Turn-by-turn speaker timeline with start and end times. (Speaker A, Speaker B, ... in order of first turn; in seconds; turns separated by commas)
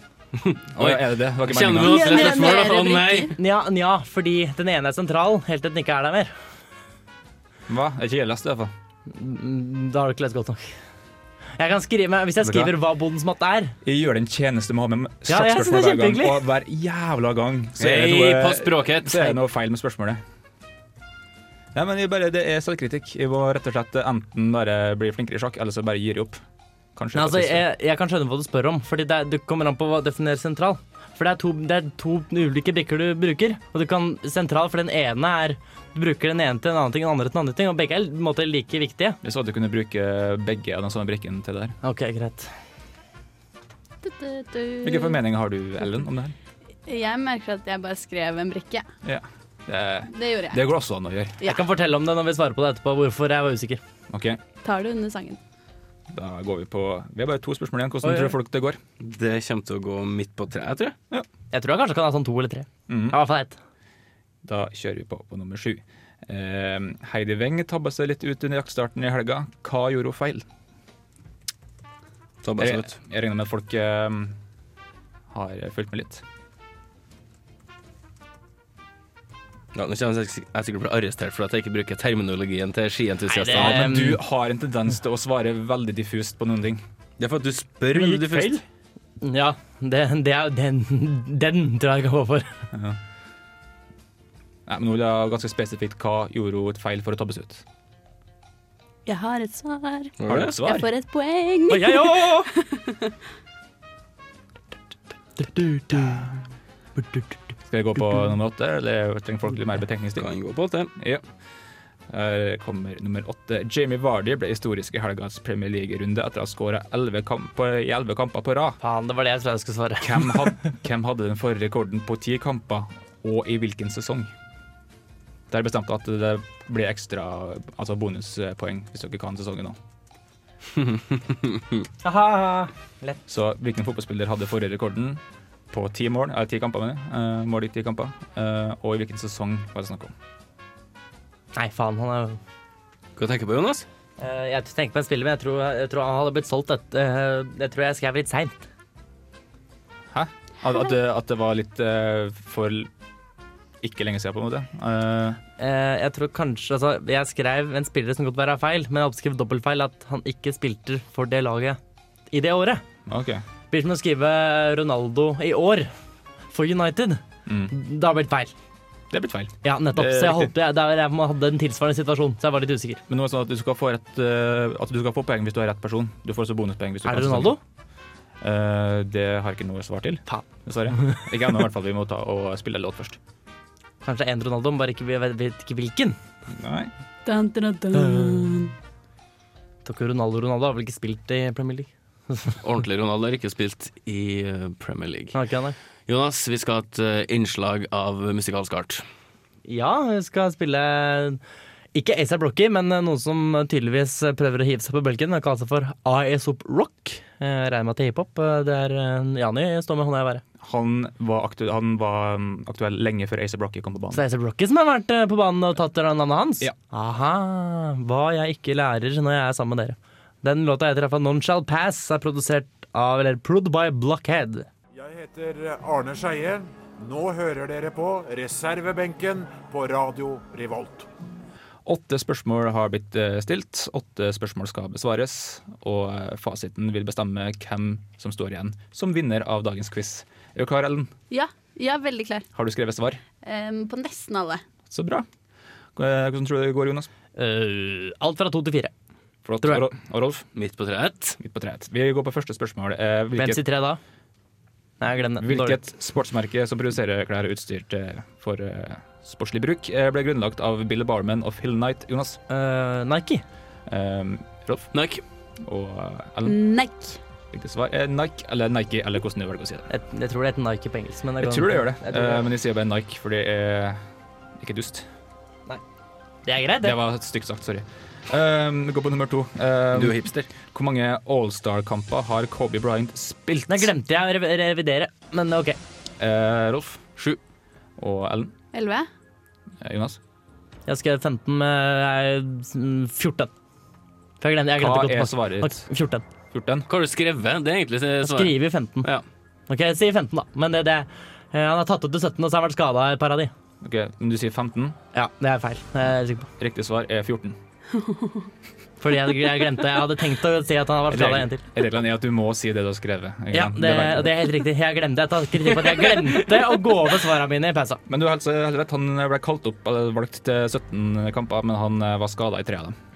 Speaker A: 0.5-3.3, Speaker B: 0.8-2.3, Speaker C: 1.8-3.3, Speaker D: 3.4-6.3, Speaker B: 7.7-8.7, Speaker D: 9.1-10.8, Speaker D: 11.6-13.8, Speaker B: 12.4-12.8, Speaker B: 13.8-20.2, Speaker D: 15.3-16.4, Speaker A: 17.8-19.3, Speaker B: 21.7-26.4, Speaker B: 26.9-27.6, Speaker D: 27.1-39.2, Speaker B: 39.2-41.8, Speaker D: 41.8-42.5, Speaker C: 44.0-45.2, Speaker B: 44.8-46.4, Speaker C: 46.9-48.9, Speaker B: 49.0-51.4, Speaker C: 50.1-50.6, Speaker D: 51.4-53.8, Speaker B: 54.1-54.4, Speaker C: 54.6-55.4, Speaker B: 56.1-58.8, Speaker D: 58.0-58.3, Speaker A: 59.0-61.0, Speaker D: 61.5-63.6, Speaker B: 62.9-63.2, Speaker B: 64.4-70.5, Speaker A: 72.4-72.9, Speaker B: 72.6-74.4, Speaker B: 75.3-76.2, Speaker A: 79.8-83.8, Speaker D: 83.3-84.2, Speaker B: 83.5-86.8, Speaker A: 87.2-88.6, Speaker D: 87.9-88.6, Speaker D: 89.2-92.6, Speaker B: 92.7-93.0, Speaker B: 94.7-97.6, Speaker C: 99.1-103.1, Speaker A: 100.2-100.6, Speaker B: 100.3-100.9, Speaker D: 101.7-102.5, Speaker D: 105.4-106.3, Speaker D: 107.0-107.3, Speaker B: 107.7-110.3, Speaker A: 110.2-110.9, Speaker B: 111.0-111.2, Speaker B: 112.1-118.8, Speaker D: 118.8-120.5, Speaker B: 120.0-124.3, Speaker B: 125.5-129.8, Speaker A: 130.7-131.9, Speaker D: 132.0-133.2, Speaker B: 133.3-140.1, Speaker D: 141.6-142.4, Speaker A: 143.2-143.9, Speaker D: 144.2-148.6, Speaker B: 150.1-152.9, Speaker B: 153.8-155.4, Speaker D: 155.6-161.8, Speaker D: 162.3-162.8, Speaker B: 163.1-163.4, Speaker D: 163.7-165.9, Speaker D: 166.5-168.5, Speaker B: 167.5-167.7, Speaker B: 169.1-170.5, Speaker D: 169.6-173.0, Speaker B: 173.1-177.6, Speaker D: 177.1-177.6, Speaker B: 178.4-183.2, Speaker D: 181.0-181.2, Speaker D: 184.0-186.2, Speaker B: 186.5-186.9, Speaker C: 187.3-188.7, Speaker D: 188.0-188.4, Speaker D: 189.8-192.6, Speaker A: 192.6-195.4, Speaker D: 195.3-195.8, Speaker A: 196.1-199.0, Speaker D: 199.7-201.4, Speaker D: 201.9-210.4, Speaker B: 210.6-214.2, Speaker D: 214.1-224.7, Speaker E: 224.9-231.1, Speaker B: 231.8-241.1, Speaker C: 241.3-242.5, Speaker B: 242.5-243.2, Speaker C: 243.4-244.6, Speaker B: 244.9-245.3, Speaker B: 246.0-247.1, Speaker D: 247.4-248.9, Speaker B: 249.4-250.5, Speaker A: 250.6-251.4, Speaker B: 251.4-253.6, Speaker D: 253.4-254.0, Speaker D: 255.0-255.8, Speaker B: 255.4-262.4, Speaker D: 262.5-263.4, Speaker B: 263.9-264.9, Speaker A: 264.9-265.2, Speaker B: 265.6-266.6, Speaker C: 266.4-267.2, Speaker B: 267.5-269.9, Speaker D: 269.9-272.5, Speaker B: 271.4-274.0, Speaker B: 274.6-275.1, Speaker D: 276.5-277.0, Speaker B: 276.8-283.9, Speaker A: 279.9-280.5, Speaker D: 283.7-285.8, Speaker B: 286.2-287.1, Speaker B: 288.0-288.5, Speaker C: 288.7-289.1, Speaker B: 289.8-290.2, Speaker D: 290.9-293.5, Speaker D: 294.4-296.2, Speaker B: 294.8-295.9, Speaker B: 296.5-296.9, Speaker A: 296.9-299.2, Speaker D: 298.2-299.1, Speaker D: 299.7-303.5, Speaker B: 303.8-305.0, Speaker D: 305.1-306.5, Speaker B: 306.6-307.6, Speaker C: 308.0-308.5, Speaker D: 309.0-311.6, Speaker B: 311.1-314.5, Speaker D: 313.5-318.0, Speaker B: 318.1-323.0